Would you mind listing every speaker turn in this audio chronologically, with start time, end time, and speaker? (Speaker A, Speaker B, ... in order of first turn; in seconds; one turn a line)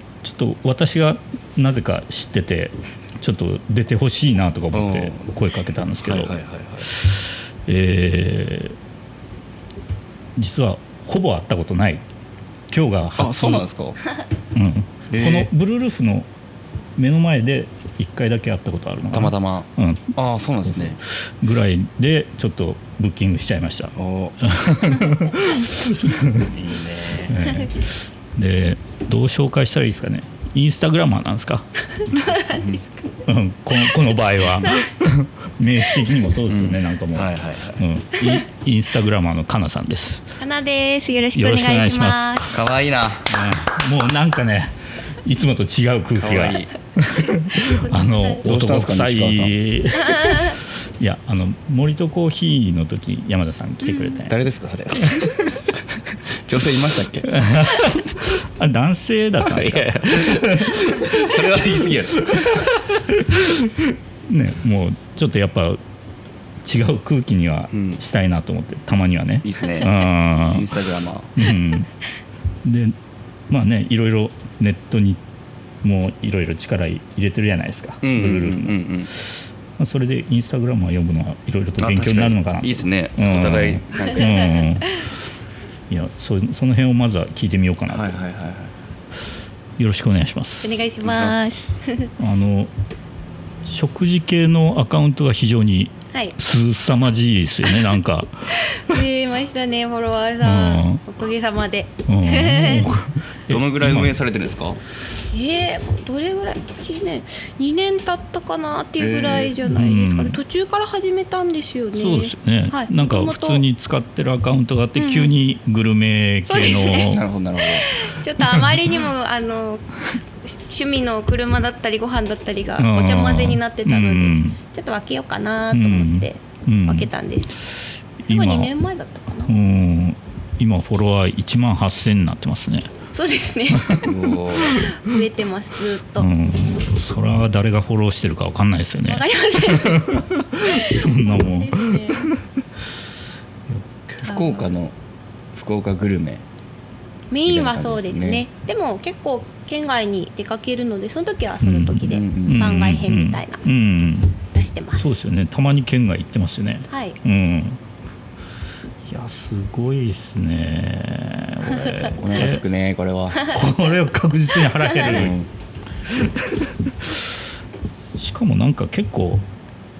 Speaker A: 0.2-8.8
Speaker B: 4.7-5.3
Speaker B: 6.0-6.9
Speaker A: 10.3-12.0
Speaker A: 12.7-13.7
Speaker B: 13.2-14.0
Speaker A: 14.5-16.3
Speaker B: 15.1-15.5
Speaker A: 16.9-26.6
Speaker B: 19.1-21.0
Speaker B: 24.0-24.3
Speaker B: 26.4-27.5
Speaker A: 27.2-32.4
Speaker C: 32.1-32.6
Speaker B: 32.4-32.8
Speaker A: 33.2-40.4
Speaker B: 36.5-37.8
Speaker C: 40.4-42.5
Speaker A: 41.3-42.5
Speaker B: 42.5-43.3
Speaker A: 43.3-54.3
Speaker B: 46.1-46.7
Speaker C: 47.5-48.5
Speaker B: 48.4-49.5
Speaker C: 50.1-50.4
Speaker B: 54.2-55.6
Speaker A: 55.0-55.6
Speaker B: 56.5-57.5
Speaker A: 57.2-65.8
Speaker B: 59.4-62.7
Speaker A: 66.6-71.9
Speaker B: 67.7-68.0
Speaker B: 69.4-71.4
Speaker A: 72.6-73.0
Speaker A: 73.5-75.2
Speaker A: 75.8-85.1
Speaker B: 78.0-79.1
Speaker B: 81.8-84.5
Speaker A: 85.9-88.2
Speaker B: 87.9-88.7
Speaker A: 89.8-90.8
Speaker C: 90.6-92.1
Speaker B: 91.0-91.7
Speaker A: 92.2-92.7
Speaker A: 93.6-98.9
Speaker C: 98.5-102.9
Speaker A: 100.4-101.0
Speaker A: 102.0-104.1
Speaker B: 103.5-104.8
Speaker C: 105.3-113.6
Speaker B: 109.0-109.5
Speaker A: 109.6-110.4
Speaker A: 111.9-117.2
Speaker C: 115.0-115.3
Speaker C: 116.5-119.8
Speaker B: 117.0-117.9
Speaker A: 118.3-119.0
Speaker C: 120.4-127.6
Speaker A: 122.8-124.6
Speaker A: 125.7-127.1
Speaker A: 128.2-128.7
Speaker C: 128.2-129.5
Speaker A: 129.4-132.9
Speaker C: 133.1-136.3
Speaker A: 133.8-134.1
Speaker B: 134.0-134.8
Speaker A: 136.2-142.6
Speaker C: 139.1-142.3
Speaker A: 143.7-144.2
Speaker C: 144.2-144.7
Speaker B: 144.2-144.9
Speaker B: 145.5-146.4
Speaker C: 147.3-153.6
Speaker B: 147.5-148.4
Speaker A: 151.6-154.4
Speaker B: 152.1-152.6
Speaker C: 154.5-155.2
Speaker A: 154.9-157.8
Speaker C: 156.9-157.2
Speaker A: 159.0-162.7
Speaker B: 162.1-163.6
Speaker A: 163.4-165.3
Speaker B: 165.0-165.5
Speaker A: 166.1-167.4
Speaker A: 168.1-169.4